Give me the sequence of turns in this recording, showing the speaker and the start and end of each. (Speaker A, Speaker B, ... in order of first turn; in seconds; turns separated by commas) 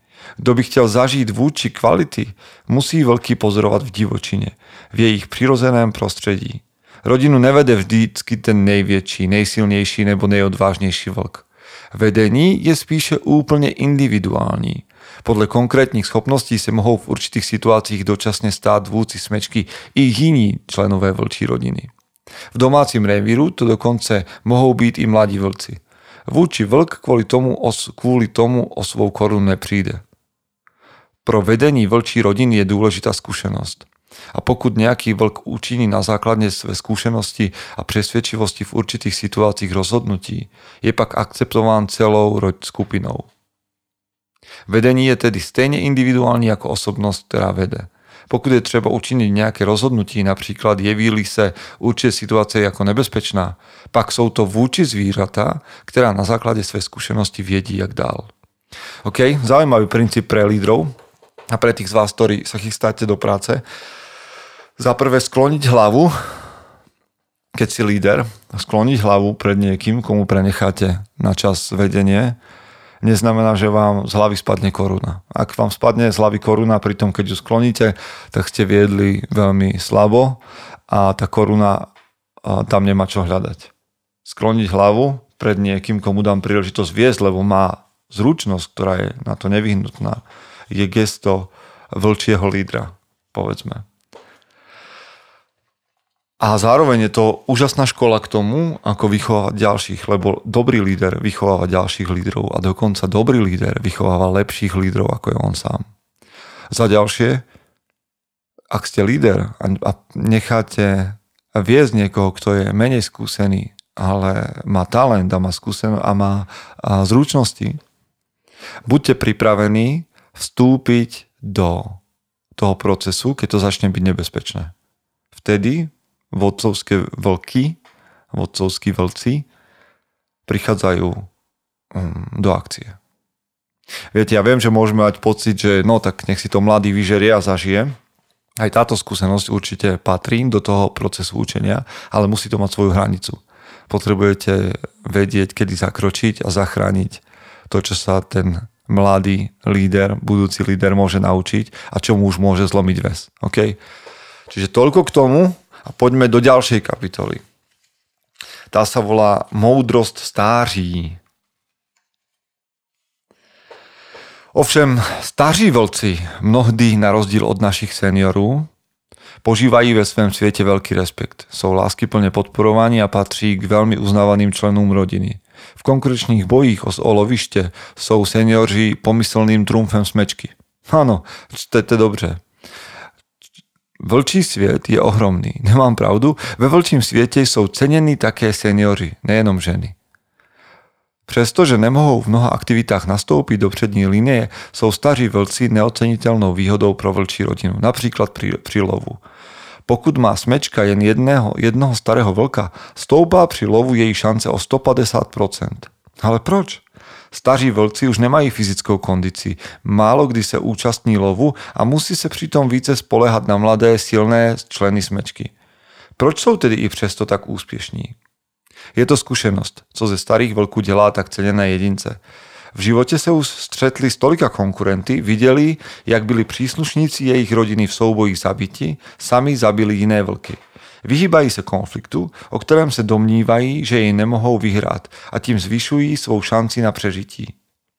Speaker A: 0.4-21.9, Speaker A: 22.5-30.0, Speaker A: 31.2-43.3, Speaker A: 44.7-58.3, Speaker A: 59.0-60.9, Speaker A: 61.5-63.6, Speaker A: 64.8-66.1, Speaker A: 67.5-72.4, Speaker A: 73.0-81.9, Speaker A: 82.4-83.7, Speaker A: 84.2-93.8, Speaker A: 96.4-105.8, Speaker A: 106.7-107.4, Speaker A: 108.7-117.8, Speaker A: 118.8-122.0, Speaker A: 122.5-124.7, Speaker A: 125.3-127.8, Speaker A: 128.3-129.5, Speaker A: 130.5-131.2, Speaker A: 131.9-133.0, Speaker A: 134.1-137.9, Speaker A: 138.6-153.8, Speaker A: 154.5-157.4, Speaker A: 158.7-161.2, Speaker A: 164.5-168.7, Speaker A: 169.4-182.4, Speaker A: 184.0-189.9, Speaker A: 191.3-199.2, Speaker A: 199.9-215.5, Speaker A: 216.2-218.2, Speaker A: 218.9-222.2, Speaker A: 222.7-237.5